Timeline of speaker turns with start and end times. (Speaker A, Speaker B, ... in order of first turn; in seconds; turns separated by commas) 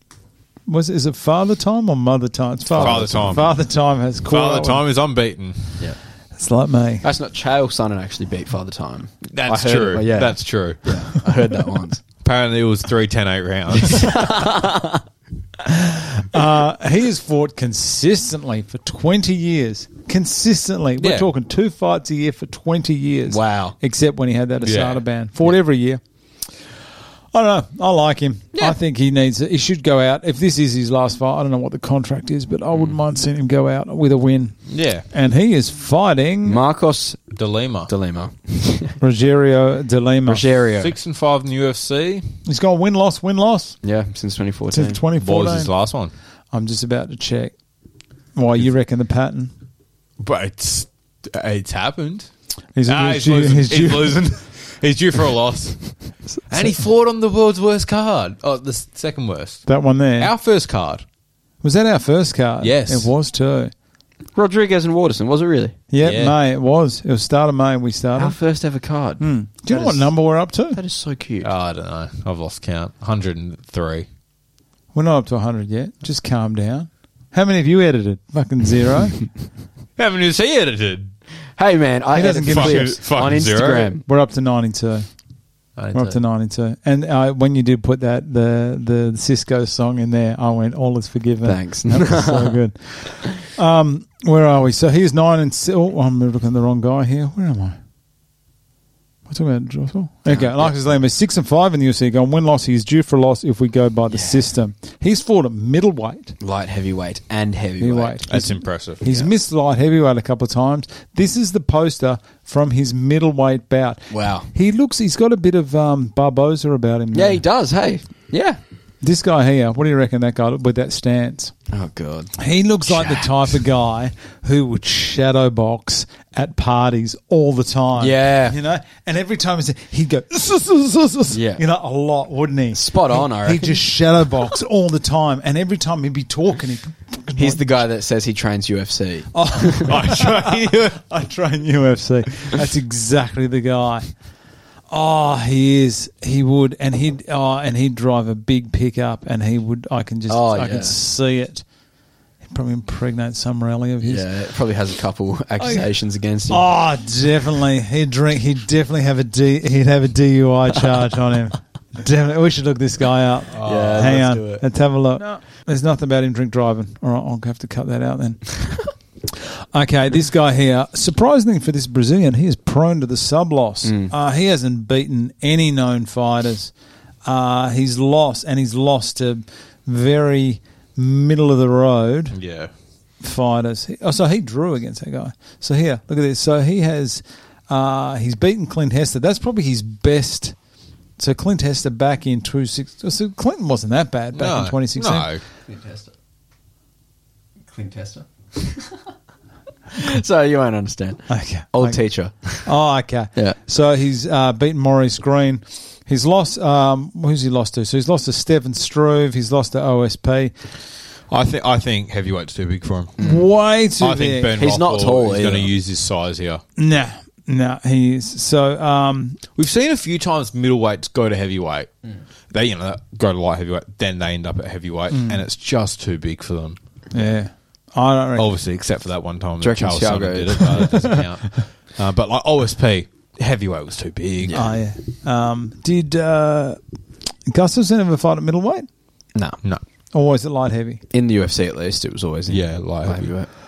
Speaker A: 0.7-4.9, Speaker B: 2.7-3.6, Speaker C: 2.8-3.4, Speaker B: 4.2-5.8, Speaker A: 6.3-7.1, Speaker C: 7.0-12.0, Speaker B: 9.3-11.1, Speaker B: 12.2-14.3, Speaker C: 13.9-15.0, Speaker A: 15.7-26.0, Speaker B: 21.0-21.3, Speaker C: 23.3-23.8, Speaker B: 24.6-25.0, Speaker A: 27.3-36.6, Speaker B: 34.7-35.0, Speaker C: 36.5-37.4, Speaker B: 37.3-37.9, Speaker C: 37.9-39.0, Speaker A: 39.0-40.5, Speaker C: 40.2-41.0, Speaker B: 40.8-42.4, Speaker A: 42.5-43.8, Speaker C: 43.8-45.0, Speaker A: 44.7-45.7, Speaker B: 45.2-46.1, Speaker A: 46.5-47.6, Speaker A: 48.3-49.5, Speaker B: 50.2-52.3, Speaker A: 52.8-54.3, Speaker B: 52.9-61.0, Speaker A: 59.7-60.3, Speaker A: 61.6-63.7, Speaker B: 62.6-63.1, Speaker C: 64.3-65.9, Speaker A: 65.9-68.4, Speaker B: 66.0-66.4, Speaker C: 68.2-71.5, Speaker A: 69.2-70.8, Speaker B: 71.4-74.1, Speaker A: 74.9-79.3, Speaker B: 80.0-81.1, Speaker C: 81.6-84.0, Speaker A: 82.1-83.3, Speaker B: 82.5-84.0, Speaker A: 83.8-85.0, Speaker B: 85.8-86.2, Speaker A: 85.9-97.8, Speaker C: 91.4-93.1, Speaker A: 99.3-106.4, Speaker C: 100.3-100.8, Speaker C: 104.1-104.5, Speaker C: 106.4-108.4, Speaker A: 107.8-117.4, Speaker B: 108.3-109.1, Speaker C: 109.0-109.3, Speaker C: 114.1-114.5, Speaker C: 117.1-118.6, Speaker A: 119.0-121.5, Speaker C: 121.7-123.5, Speaker A: 122.4-137.8, Speaker C: 128.0-128.6, Speaker C: 131.3-131.6, Speaker C: 132.7-133.9, Speaker C: 137.4-140.0, Speaker A: 139.4-144.1, Speaker B: 139.9-141.0, Speaker A: 144.9-151.6, Speaker C: 150.3-151.0, Speaker A: 152.4-154.3, Speaker C: 154.0-156.7, Speaker A: 155.6-155.9, Speaker A: 156.5-168.8, Speaker B: 163.5-164.3, Speaker C: 163.6-164.6, Speaker A: 169.3-176.7, Speaker C: 173.8-174.1, Speaker A: 177.2-182.4, Speaker B: 182.3-182.7, Speaker A: 183.2-190.6, Speaker A: 191.2-195.3, Speaker B: 194.3-195.4, Speaker C: 195.7-196.1, Speaker C: 197.7-199.1, Speaker C: 199.9-202.7, Speaker A: 201.3-202.1, Speaker A: 202.6-210.6, Speaker B: 211.3-213.3, Speaker A: 213.2-214.6, Speaker B: 214.0-216.6, Speaker C: 214.6-215.7, Speaker A: 216.8-219.4, Speaker B: 219.6-221.9, Speaker B: 222.5-226.8, Speaker A: 225.1-225.4, Speaker A: 227.1-228.5, Speaker B: 228.4-234.8, Speaker C: 229.6-231.0, Speaker A: 230.7-231.2, Speaker C: 234.4-234.8, Speaker A: 234.5-236.8, Speaker A: 237.5-238.9, Speaker C: 239.3-239.6, Speaker A: 240.1-241.0, Speaker C: 241.1-243.5, Speaker B: 242.5-243.3